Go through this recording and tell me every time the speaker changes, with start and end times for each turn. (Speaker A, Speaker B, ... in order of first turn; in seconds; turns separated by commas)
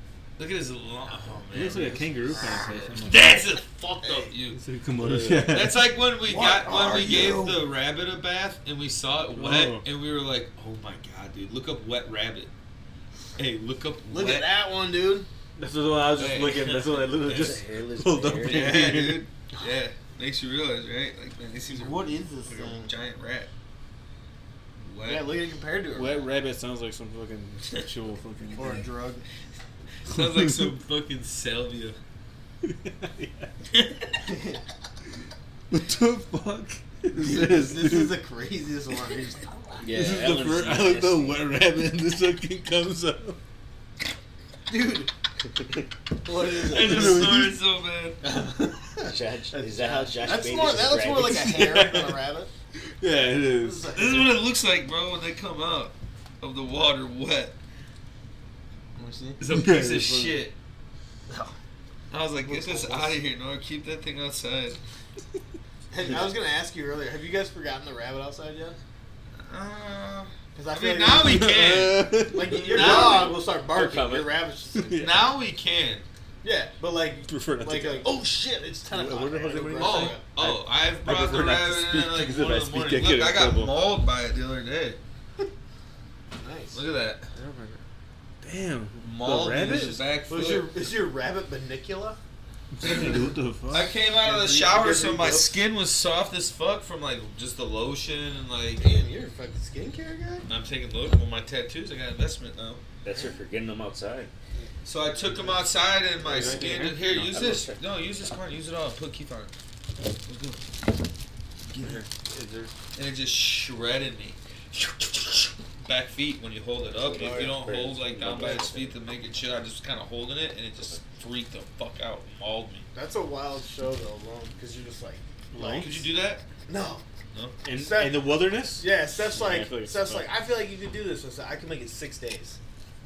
Speaker A: 0.4-4.6, Speaker B: 1.5-3.3, Speaker C: 3.5-4.3, Speaker B: 4.5-5.8, Speaker D: 5.1-5.5, Speaker A: 5.3-12.5, Speaker C: 6.3-7.6, Speaker B: 9.3-9.9, Speaker A: 13.4-14.5, Speaker C: 14.1-15.3, Speaker B: 15.6-19.2, Speaker A: 16.1-17.6, Speaker D: 17.3-18.9, Speaker A: 18.4-23.5, Speaker C: 21.7-22.9, Speaker A: 24.8-25.3, Speaker C: 25.0-26.3, Speaker B: 25.9-28.9, Speaker C: 28.6-29.2, Speaker A: 30.1-32.0, Speaker B: 30.1-30.6, Speaker B: 32.6-33.5, Speaker A: 33.7-34.1, Speaker C: 34.2-34.6, Speaker B: 35.7-38.1, Speaker C: 37.2-39.8, Speaker D: 39.8-41.4, Speaker B: 39.9-43.4, Speaker C: 44.7-45.1, Speaker C: 46.2-47.4, Speaker A: 46.6-48.2, Speaker B: 46.7-47.5, Speaker C: 48.2-52.5, Speaker D: 49.0-51.4, Speaker B: 51.1-52.2, Speaker B: 53.0-53.9, Speaker C: 53.6-54.3, Speaker A: 53.9-57.5, Speaker C: 59.0-59.4, Speaker A: 59.4-60.5, Speaker B: 59.5-60.4, Speaker C: 61.3-61.5, Speaker A: 62.1-64.8, Speaker C: 62.4-63.2, Speaker C: 65.9-68.8, Speaker A: 69.4-73.3, Speaker C: 70.5-71.6, Speaker B: 71.2-72.9, Speaker C: 72.3-75.1, Speaker D: 72.6-74.3, Speaker B: 74.8-75.1, Speaker A: 74.9-76.0, Speaker C: 76.4-80.2, Speaker B: 77.3-78.1, Speaker B: 78.9-83.7, Speaker A: 79.8-85.0, Speaker C: 86.4-86.8, Speaker A: 86.7-87.3, Speaker C: 87.3-87.8, Speaker B: 88.4-90.0, Speaker A: 89.0-90.7, Speaker C: 89.6-92.2, Speaker B: 92.7-93.9, Speaker A: 92.8-93.2, Speaker A: 93.7-98.9, Speaker C: 94.2-95.5, Speaker C: 98.8-100.5, Speaker A: 100.5-102.8, Speaker D: 103.0-104.3, Speaker A: 104.8-109.5, Speaker B: 106.2-107.1, Speaker D: 107.1-107.8, Speaker A: 110.2-110.7, Speaker A: 111.7-112.0, Speaker B: 111.8-112.7, Speaker A: 113.0-122.8, Speaker D: 116.9-119.0, Speaker C: 117.2-117.6, Speaker C: 122.9-126.0, Speaker B: 125.5-126.0, Speaker A: 125.8-126.5, Speaker C: 126.7-127.0, Speaker B: 127.6-130.3, Speaker C: 127.7-132.6